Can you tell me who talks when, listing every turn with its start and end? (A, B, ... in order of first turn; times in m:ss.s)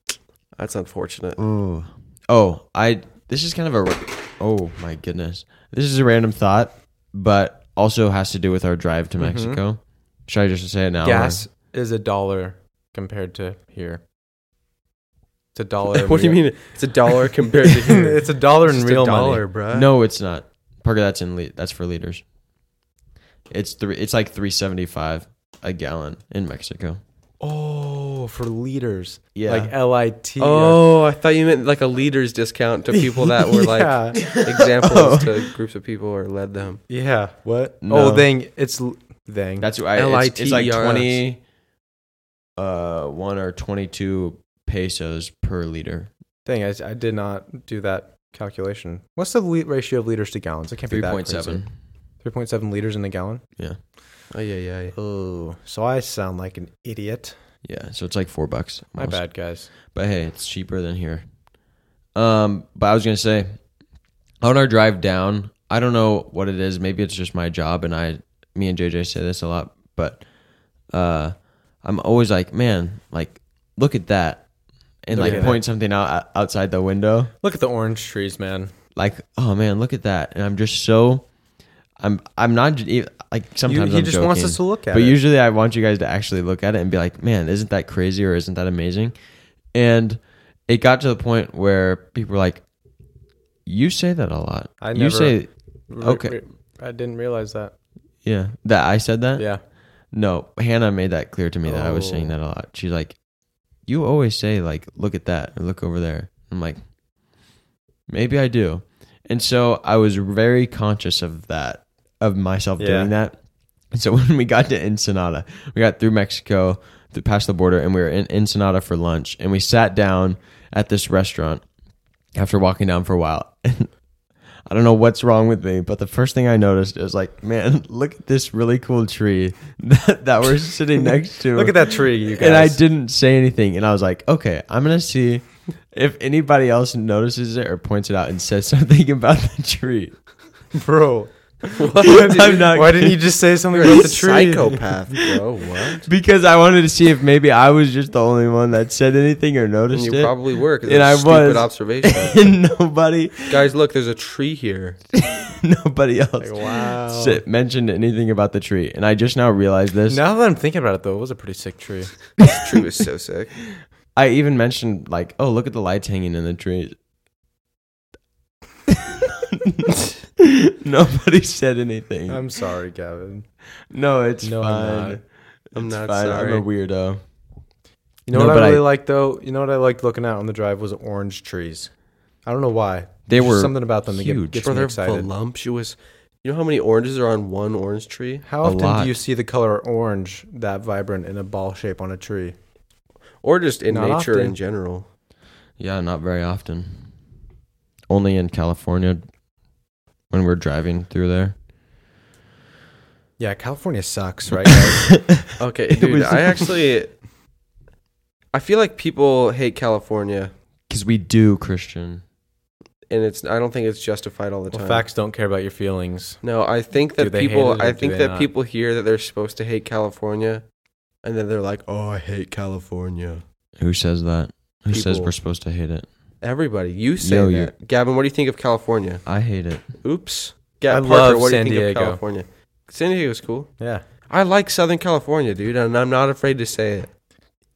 0:00.6-0:01.4 A
0:01.4-0:11.5 B
0:09.2-0:09.6 C
0:11.0-0:14.0 C
0:15.5-0:16.6 C
0:15.9-0:19.9 A
0:17.9-0:19.4 C
0:19.7-0:22.2 B
0:23.5-0:27.0 B
0:27.4-0:30.8 C
0:29.3-0:29.7 B
0:30.4-0:36.8 A
0:32.9-0:34.3 C
0:34.2-0:35.5 B
0:36.9-0:39.7 C
0:37.8-0:38.3 B
0:39.6-0:41.4 B
0:40.0-0:41.2 A
0:42.6-0:46.1 B
0:46.4-0:51.6 C
0:50.9-0:51.7 B
0:52.2-0:53.4 C
0:54.3-0:55.0 A
0:54.9-0:57.4 C
0:57.6-1:01.2 B
0:59.0-0:59.7 C
1:02.2-1:03.6 B
1:04.4-1:10.2 B
1:10.9-1:14.5 B
1:15.0-1:17.3 B
1:15.1-1:15.6 C
1:15.2-1:15.6 A
1:17.4-1:18.7 C
1:19.0-1:21.3 B
1:22.0-1:29.1 B
1:23.7-1:25.2 C
1:29.7-1:32.6 B
1:33.7-1:36.4 B
1:34.8-1:37.7 C
1:38.2-1:39.5 B
1:39.4-1:39.6 C
1:40.1-1:43.2 B
1:41.7-1:42.3 A
1:43.9-1:46.8 B
1:48.1-1:53.4 B
1:52.8-1:53.1 C
1:53.9-2:01.6 B
2:02.4-2:04.0 B
2:04.7-2:20.2 B
2:11.5-2:12.8 C
2:20.7-2:24.8 C
2:21.8-2:22.7 A
2:22.1-2:24.0 B
2:23.8-2:26.1 A
2:26.0-2:33.6 B
2:29.9-2:32.5 A
2:33.5-2:35.0 A
2:35.1-2:40.2 B
2:36.4-2:37.4 C
2:40.1-2:42.1 C
2:42.5-2:43.6 A
2:44.1-2:47.0 B
2:48.9-2:52.4 B
2:52.3-2:53.5 C
2:53.9-2:55.2 B
2:54.4-2:55.2 C
2:55.8-2:56.6 A
2:55.8-2:57.2 B
2:58.3-3:01.9 C
2:58.3-2:58.8 B
3:02.5-3:05.3 C
3:03.3-3:04.6 B
3:04.6-3:08.4 A
3:08.4-3:12.6 C
3:08.6-3:09.2 B
3:13.4-3:15.1 A
3:13.9-3:14.6 C
3:15.8-3:17.1 B
3:18.1-3:19.2 B
3:20.3-3:21.6 B
3:23.4-3:25.1 C
3:24.7-3:26.8 B
3:25.6-3:27.2 A
3:28.5-3:30.5 A
3:30.9-3:32.2 B
3:33.1-3:35.0 A
3:34.7-3:36.4 C
3:36.4-3:40.6 A
3:37.2-3:38.5 C
3:41.2-3:43.4 A
3:43.8-3:46.1 B
3:44.9-3:45.3 A
3:46.4-3:49.2 A
3:47.2-3:47.7 B
3:49.3-3:49.9 B
3:50.0-3:53.7 A
3:50.9-3:52.2 C
3:54.3-3:57.1 A